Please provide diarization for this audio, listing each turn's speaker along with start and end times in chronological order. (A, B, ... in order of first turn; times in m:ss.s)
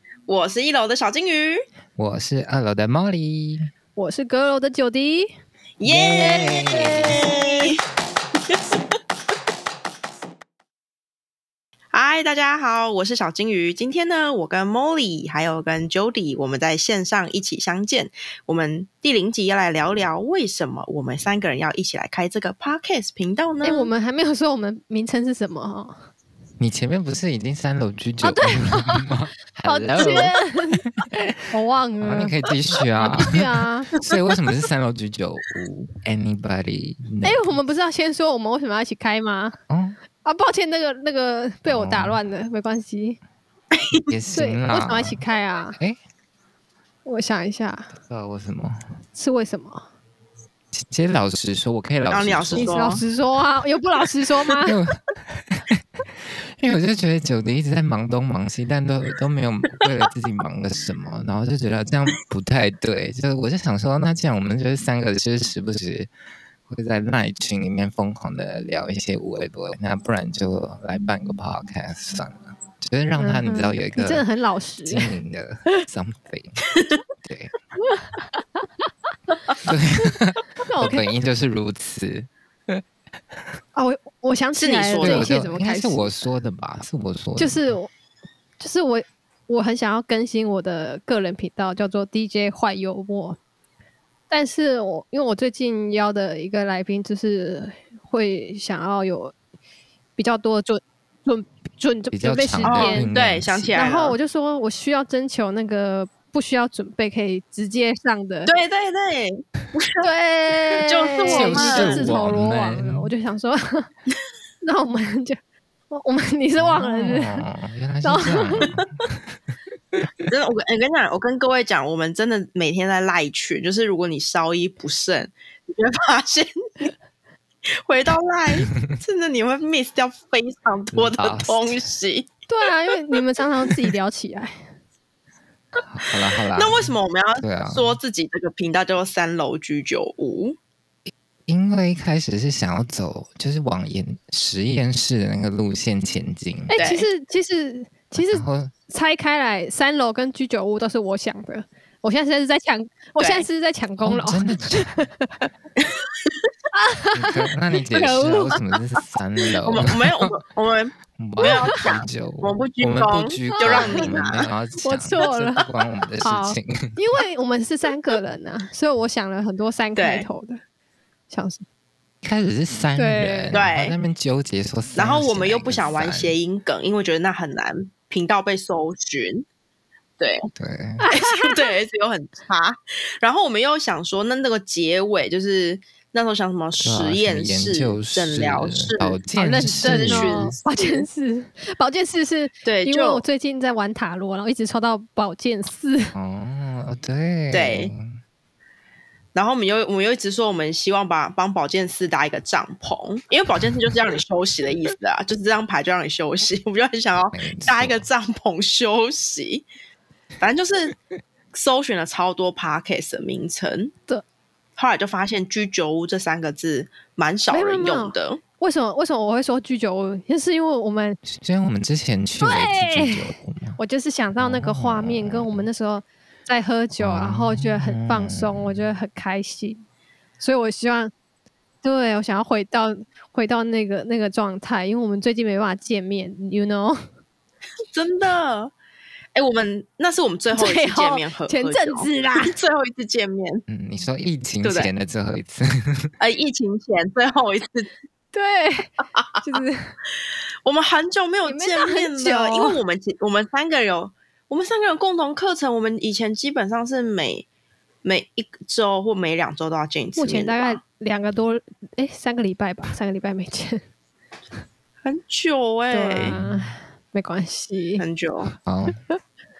0:00.3-0:01.6 A
0:02.0-0:03.7 B
0:04.0-0:05.3 C
0:05.8-0:07.8 A
0:05.8-0:07.2 B
0:06.2-0:07.7 C
0:11.9-0:23.9 A
0:23.6-0:26.0 C
0:26.6-0:31.0 B
0:28.2-0:29.1 C
0:29.6-0:33.9 C
0:32.0-0:37.6 B
0:37.2-0:39.6 C
0:39.7-0:40.0 B
0:40.2-0:43.2 C
0:41.6-0:42.2 B
0:43.7-0:44.0 A
0:44.1-0:45.2 B
0:44.3-0:45.8 C
0:47.0-0:47.9 C
0:48.0-0:49.0 B
0:49.1-0:49.9 C
0:50.7-0:53.0 B
0:52.1-0:53.0 A
0:52.6-0:54.7 C
0:54.6-0:55.8 B
0:56.6-1:06.1 B
1:06.7-1:14.2 B
1:13.2-1:15.1 C
1:14.8-1:16.6 B
1:17.2-1:17.5 B
1:17.9-1:18.6 C
1:19.6-1:22.8 B
1:20.6-1:21.1 C
1:23.7-1:26.2 C
1:24.5-1:25.4 A
1:25.0-1:27.7 B
1:27.4-1:27.9 C
1:28.6-1:33.4 C
1:34.3-1:39.3 C
1:40.2-1:43.1 C
1:42.1-1:43.8 B
1:42.6-1:44.2 A
1:43.7-1:48.5 C
1:48.4-1:50.0 A
1:50.0-1:53.9 C
1:50.9-1:52.1 A
1:51.2-1:53.1 B
1:54.6-1:55.4 C
1:55.9-1:57.4 C
1:56.6-1:59.2 B
1:58.0-1:58.7 C
2:00.0-2:00.2 B
2:00.3-2:06.9 A
2:07.8-2:12.3 A
2:10.9-2:11.8 B
2:12.5-2:14.6 C
2:15.8-2:18.0 B
2:16.5-2:20.6 A
2:21.1-2:26.7 B
2:26.7-2:35.5 C
2:26.8-2:27.1 A
2:28.1-2:28.7 B
2:33.2-2:33.4 A
2:34.0-2:34.9 B
2:36.7-2:37.3 C
2:37.1-2:40.0 B
2:37.9-2:38.6 C
2:39.6-2:44.4 A
2:41.2-2:47.0 B
2:43.6-2:44.1 C
2:44.8-2:45.7 C
2:46.2-2:50.6 C
2:50.0-2:50.3 A
2:51.3-2:51.6 C
2:52.2-2:56.4 B
2:53.0-2:53.6 C
2:53.5-2:54.0 A
2:55.0-2:59.4 A
3:00.2-3:00.5 A
3:00.6-3:01.0 B
3:01.0-3:01.5 C
3:01.0-3:11.0 A
3:06.8-3:10.5 B
3:09.8-3:16.1 C
3:12.6-3:13.2 A
3:16.1-3:18.2 B
3:17.5-3:17.9 A
3:19.3-3:29.6 A
3:27.3-3:28.0 B
3:30.4-3:30.9 A
3:31.5-3:33.9 A
3:34.8-3:38.4 A
3:37.5-3:41.2 C
3:41.2-3:43.8 B
3:42.4-3:43.2 C
3:43.8-3:49.8 C
3:44.4-3:45.7 B
3:47.0-3:48.9 B
3:50.4-3:51.1 C
3:51.8-3:57.0 C
3:57.9-3:58.7 A
3:59.3-4:03.6 A
4:00.5-4:02.5 C
4:03.7-4:06.1 B
4:04.6-4:04.9 A
4:06.2-4:07.9 A
4:08.3-4:09.9 C
4:09.1-4:09.6 A
4:10.6-4:17.4 A
4:11.4-4:12.8 C
4:18.0-4:20.8 A
4:20.2-4:23.8 C
4:25.0-4:26.3 A
4:25.9-4:28.0 C
4:26.2-4:26.8 B
4:28.0-4:28.5 A
4:28.6-4:29.0 B
4:28.9-4:29.2 C